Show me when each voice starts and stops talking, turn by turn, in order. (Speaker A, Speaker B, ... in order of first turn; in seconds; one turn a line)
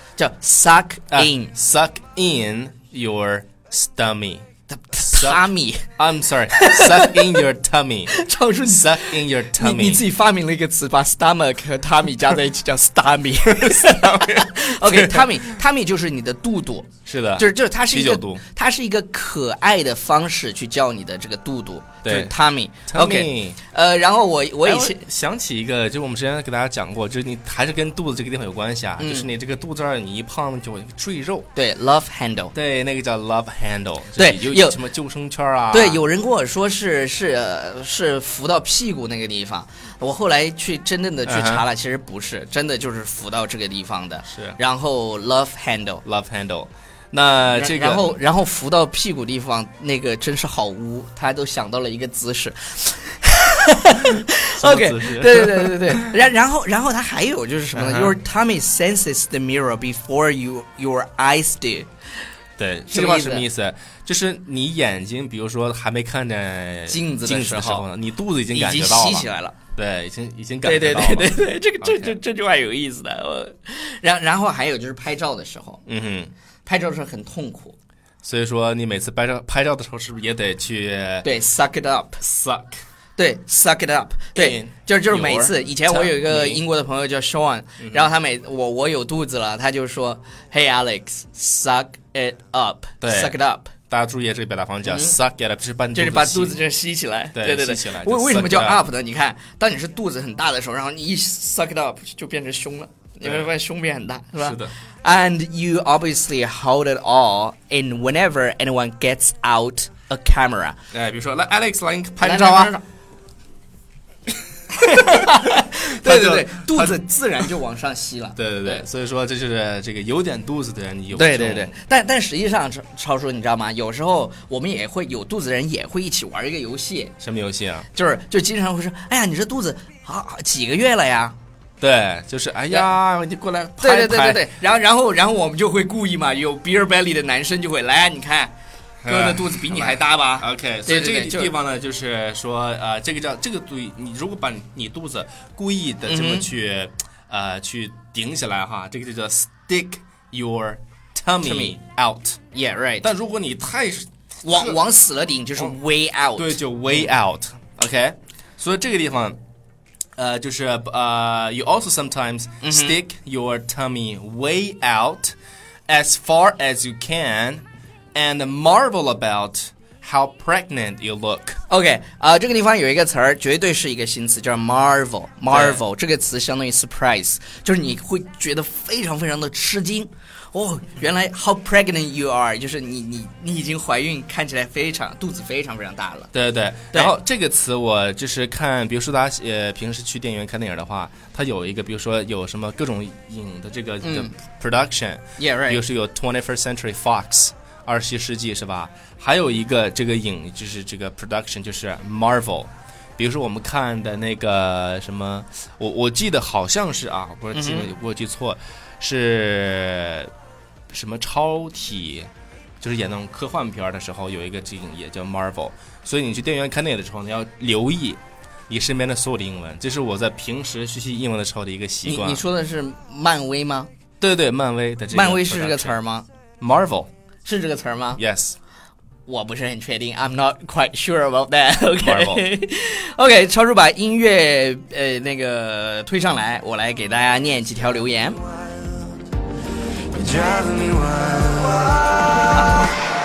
Speaker A: 0.2-1.5
Speaker B: 1.1-4.5
Speaker A: 4.7-5.9
Speaker B: 5.1-5.4
Speaker B: 6.0-8.1
Speaker A: 6.5-7.4
Speaker A: 8.1-25.0
Speaker B: 8.7-10.0
Speaker B: 13.5-15.5
Speaker B: 17.1-18.4
Speaker B: 22.0-22.3
Speaker B: 22.9-23.6
Speaker B: 24.6-31.5
Speaker A: 29.0-29.3
Speaker A: 31.6-32.5
Speaker B: 32.5-36.0
Speaker A: 34.2-34.8
Speaker A: 35.7-46.0
Speaker B: 41.3-41.6
Speaker B: 44.3-44.6
Speaker B: 46.0-48.2
Speaker A: 47.5-61.9
Speaker B: 54.2-56.2
Speaker B: 57.8-58.2
Speaker B: 62.6-72.2
Speaker A: 62.9-63.5
Speaker A: 66.9-67.9
Speaker A: 68.5-69.6
Speaker A: 70.6-75.8
Speaker B: 75.9-76.3
Speaker A: 76.7-77.8
Speaker B: 78.2-81.3
Speaker A: 81.2-82.2
Speaker B: 82.2-82.8
Speaker A: 83.2-93.7
Speaker B: 84.3-86.6
Speaker B: 87.8-88.1
Speaker B: 93.0-93.3
Speaker B: 93.9-96.6
Speaker A: 94.8-95.2
Speaker A: 96.0-110.8
Speaker B: 97.3-98.8
Speaker B: 103.2-103.5
Speaker B: 104.4-104.7
Speaker B: 110.9-112.7
Speaker A: 112.2-112.8
Speaker A: 114.7-118.8
Speaker B: 114.9-117.0
Speaker B: 118.4-121.7
Speaker A: 121.1-127.2
Speaker B: 127.2-127.9
Speaker A: 127.9-131.3
Speaker B: 131.8-134.5
Speaker A: 133.8-138.5
Speaker B: 139.0-152.4
Speaker A: 139.1-141.5
Speaker A: 146.1-146.5
Speaker A: 151.4-151.8
Speaker A: 152.5-153.1
Speaker B: 153.0-154.8
Speaker A: 154.4-157.1
Speaker B: 156.4-159.4
Speaker B: 160.2-165.3
Speaker A: 162.6-163.0
Speaker B: 165.9-167.6
Speaker B: 168.1-171.6
Speaker A: 171.7-186.3
Speaker B: 175.5-175.8
Speaker B: 186.3-210.3
Speaker A: 194.0-194.3
Speaker A: 195.4-195.8
Speaker A: 207.5-207.9
Speaker B: 210.9-212.3
Speaker B: 212.8-222.4
Speaker A: 222.1-223.9
Speaker B: 224.2-225.9
Speaker A: 225.1-226.3
Speaker B: 226.6-227.1
Speaker A: 227.4-228.2
Speaker B: 228.2-228.6
Speaker A: 229.3-238.4
Speaker B: 232.0-232.5
Speaker C: 240.2-242.5